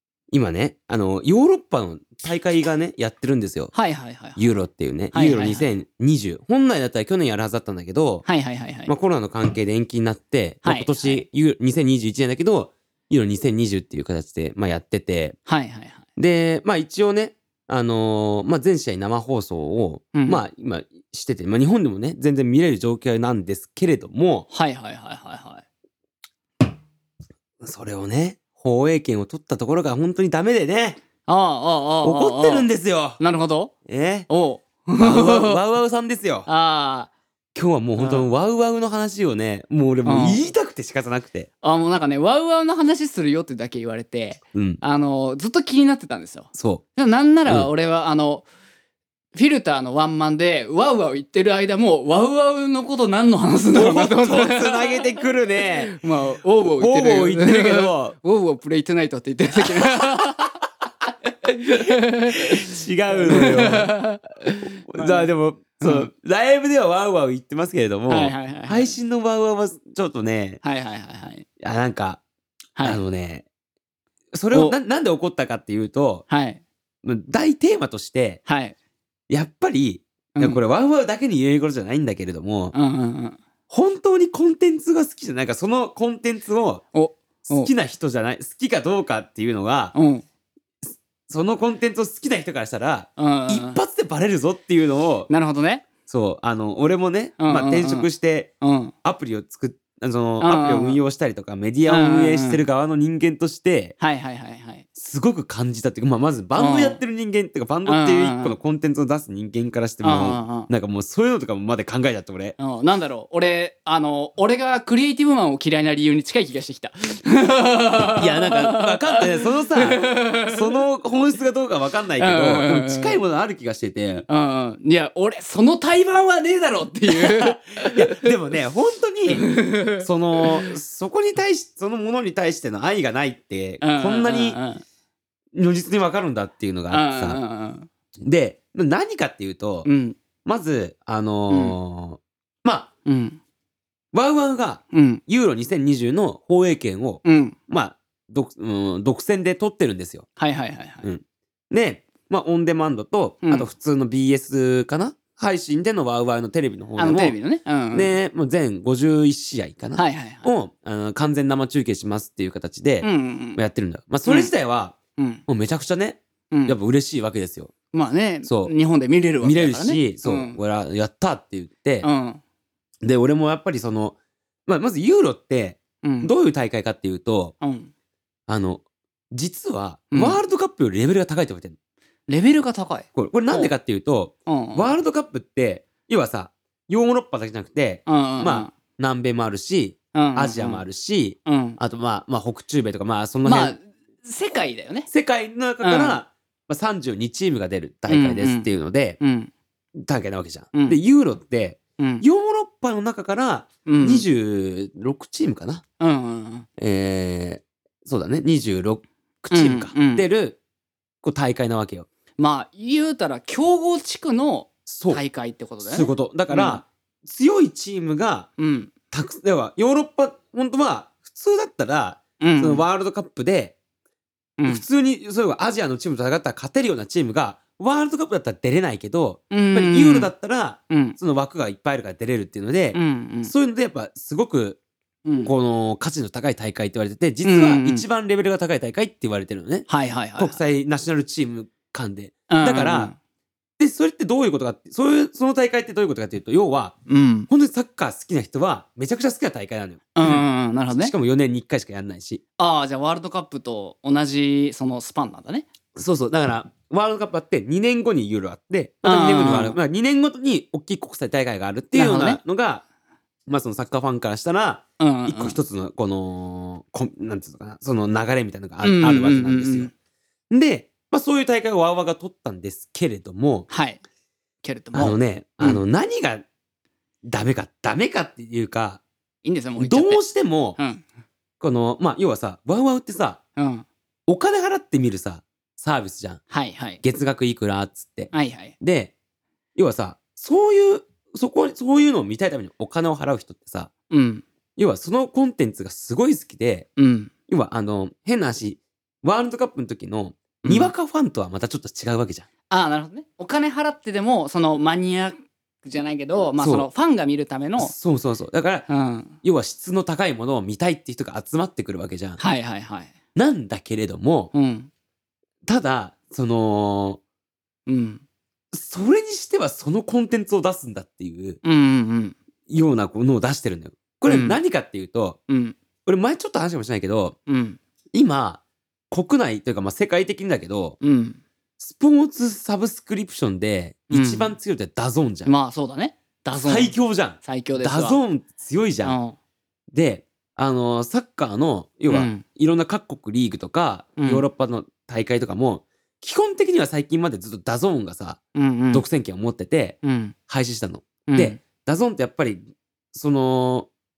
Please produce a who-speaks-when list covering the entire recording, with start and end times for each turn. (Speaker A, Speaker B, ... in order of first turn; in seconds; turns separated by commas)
Speaker A: 0.3-3.7, Speaker B: 3.7-4.5, Speaker A: 4.4-8.3, Speaker B: 5.1-5.7, Speaker B: 8.3-8.9, Speaker A: 8.9-15.4, Speaker B: 10.6-11.2, Speaker B: 15.5-16.1, Speaker A: 16.2-24.5, Speaker B: 20.1-20.4, Speaker B: 24.5-25.6, Speaker A: 27.6-31.0, Speaker B: 31.3-33.7, Speaker A: 32.0-33.2, Speaker A: 33.9-34.3, Speaker B: 34.3-35.6, Speaker A: 35.0-36.5, Speaker B: 36.5-37.1, Speaker A: 37.5-41.5, Speaker B: 38.0-38.3, Speaker B: 40.0-40.5, Speaker B: 41.6-48.5, Speaker A: 44.5-44.8, Speaker A: 46.5-46.8, Speaker B: 49.4-55.1, Speaker A: 53.8-56.0, Speaker B: 55.8-60.6, Speaker A: 56.7-58.2, Speaker A: 59.6-60.3, Speaker B: 61.4-66.1, Speaker A: 61.9-64.0, Speaker A: 64.9-70.6, Speaker B: 68.1-69.0, Speaker B: 70.6-71.5, Speaker A: 71.6-72.2, Speaker A: 72.8-73.5, Speaker A: 74.3-76.3, Speaker B: 76.3-76.6, Speaker A: 77.0-78.4, Speaker B: 78.5-78.8, Speaker A: 79.3-82.8, Speaker B: 80.3-80.6, Speaker B: 82.7-83.4, Speaker A: 83.7-86.8, Speaker B: 86.9-87.7, Speaker A: 87.5-90.0, Speaker B: 90.0-90.2, Speaker A: 91.3-95.3, Speaker B: 93.2-93.8, Speaker B: 95.3-95.9, Speaker A: 96.1-98.5, Speaker B: 97.4-98.1, Speaker B: 98.6-98.9, Speaker A: 99.0-104.0, Speaker B: 100.4-101.0, Speaker B: 101.9-102.6, Speaker B: 104.0-104.9, Speaker A: 105.0-112.6, Speaker B: 106.5-107.0, Speaker B: 107.9-108.6, Speaker B: 110.0-110.7, Speaker B: 112.6-120.8, Speaker A: 118.1-124.3, Speaker B: 122.2-123.2, Speaker B: 124.3-128.3, Speaker A: 127.1-134.6, Speaker B: 129.3-130.7, Speaker B: 133.8-134.8, Speaker A: 135.5-137.4, Speaker B: 136.9-137.9, Speaker A: 138.2-139.9, Speaker B: 139.8-140.2, Speaker A: 140.4-142.9, Speaker B: 141.5-141.8, Speaker B: 143.1-143.4, Speaker A: 144.1-150.3, Speaker B: 144.9-145.2, Speaker B: 147.2-147.6, Speaker B: 150.4-151.1, Speaker A: 151.0-157.4, Speaker B: 157.0-158.2, Speaker A: 157.9-165.0, Speaker B: 160.0-160.5, Speaker B: 163.0-163.6, Speaker B: 164.2-164.5, Speaker B: 165.2-165.4, Speaker A: 165.5-167.7, Speaker B: 166.5-166.8, Speaker B: 167.9-170.6, Speaker A: 168.5-168.7, Speaker A: 169.4-172.1, Speaker B: 172.0-172.4, Speaker A: 173.0-174.2, Speaker A: 174.7-177.6, Speaker B: 176.0-176.3, Speaker B: 177.6-177.9, Speaker A: 178.5-181.8, Speaker B: 180.1-180.4, Speaker B: 182.3-183.7, Speaker A: 183.2-193.8, Speaker B: 184.5-184.9, Speaker B: 188.1-188.7, Speaker B: 190.1-190.8, Speaker B: 191.5-191.8, Speaker B: 193.4-195.1, Speaker A: 195.1-199.2, Speaker B: 195.8-196.2, Speaker B: 198.1-199.5, Speaker A: 200.0-205.8, Speaker B: 200.7-201.0, Speaker B: 202.0-202.2, Speaker B: 203.8-204.3, Speaker B: 206.0-206.7, Speaker A: 206.8-210.6, Speaker B: 209.5-210.3, Speaker A: 211.2-212.1, Speaker B: 212.4-216.8, Speaker A: 214.9-215.2, Speaker A: 215.8-218.5, Speaker B: 218.6-218.9, Speaker A: 219.1-223.8, Speaker B: 222.4-222.8, Speaker B: 224.6-224.8, Speaker A: 224.7-234.8, Speaker B: 229.5-230.3, Speaker B: 230.9-231.2, Speaker B: 232.9-233.5, Speaker B: 235.2-235.5, Speaker A: 235.4-243.1, Speaker B: 237.4-238.1, Speaker B: 239.9-240.6, Speaker B: 242.5-243.2, Speaker A: 243.8-247.0, Speaker B: 247.1-247.5, Speaker A: 247.5-252.4, Speaker B: 250.2-251.1, Speaker B: 252.6-255.7, Speaker A: 255.9-262.8, Speaker B: 259.0-259.8, Speaker B: 261.9-262.4, Speaker A: 263.5-269.9, Speaker B: 265.0-265.6, Speaker B: 268.8-269.9, Speaker A: 270.5-273.7, Speaker B: 273.7-274.0, Speaker B: 274.6-275.8, Speaker A: 274.9-276.4, Speaker A: 277.2-279.0, Speaker B: 279.4-280.2, Speaker A: 279.8-280.8, Speaker B: 280.8-281.0, Speaker A: 281.6-283.4, Speaker B: 283.6-283.9, Speaker A: 284.3-286.4, Speaker B: 286.5-287.0, Speaker A: 287.0-289.1, Speaker B: 288.3-288.8, Speaker A: 289.8-293.9, Speaker B: 294.1-294.4, Speaker A: 294.8-296.9, Speaker B: 297.0-297.3, Speaker A: 297.5-302.5, Speaker B: 300.6-300.9, Speaker B: 302.7-307.9, Speaker A: 306.6-306.9, Speaker A: 307.8-308.9, Speaker B: 308.9-309.4, Speaker A: 309.4-312.4, Speaker B: 312.4-313.1, Speaker A: 313.4-314.5, Speaker B: 314.5-314.9, Speaker A: 315.6-317.2, Speaker B: 317.9-318.2, Speaker A: 318.7-321.6, Speaker B: 321.6-322.4, Speaker A: 322.7-325.4, Speaker B: 324.3-324.6, Speaker B: 325.5-325.8, Speaker A: 326.1-327.4, Speaker B: 327.5-327.8, Speaker A: 328.1-331.0, Speaker B: 331.0-331.4, Speaker A: 331.8-335.5, Speaker B: 334.1-334.6, Speaker B: 335.4-338.2, Speaker A: 336.6-339.2, Speaker B: 339.0-339.4, Speaker A: 339.9-348.4, Speaker B: 342.1-342.4, Speaker B: 344.2-344.4, Speaker B: 348.6-349.1, Speaker A: 348.9-353.9, Speaker B: 350.0-350.4, Speaker B: 351.3-351.6